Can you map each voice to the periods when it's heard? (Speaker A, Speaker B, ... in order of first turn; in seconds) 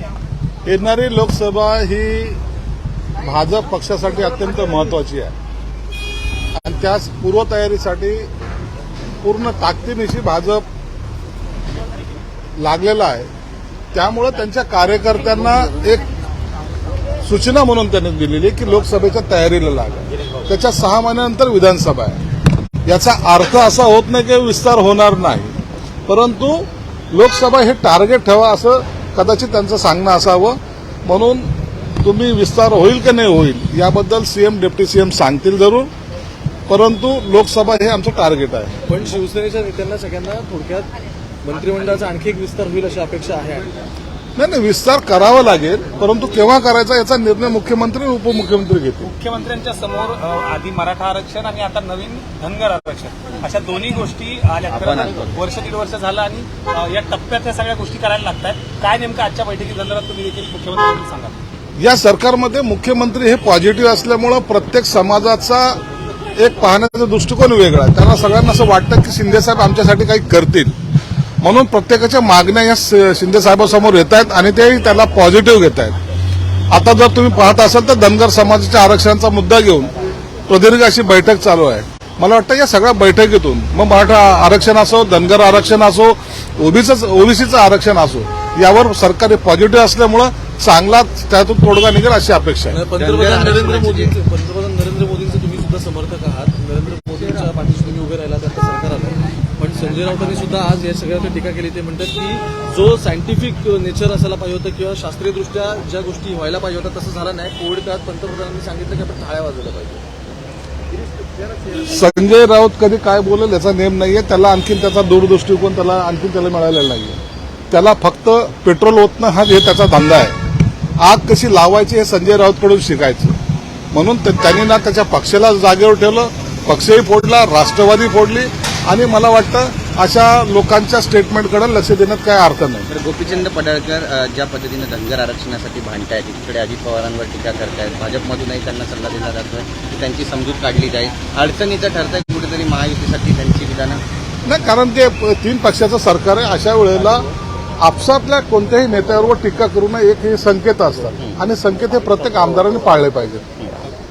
Speaker A: 0.6-2.4, 3.2-5.3, 6.5-8.3, 9.2-10.6, 12.6-13.3, 13.9-16.0, 17.2-22.2, 22.9-25.6, 26.1-31.5, 32.0-35.9, 36.7-38.8, 44.4-49.1, 61.8-65.8, 66.3-70.8, 71.4-76.0, 76.7-79.9, 80.5-92.8, 111.9-117.2, 117.7-120.3, 121.0-123.3, 123.9-132.9, 144.4-147.3, 147.8-153.5
Speaker B: 38.9-40.9, 41.4-43.7, 92.7-110.0
Speaker C: 49.0-61.3
Speaker D: 54.7-55.4, 92.9-94.1, 132.9-144.0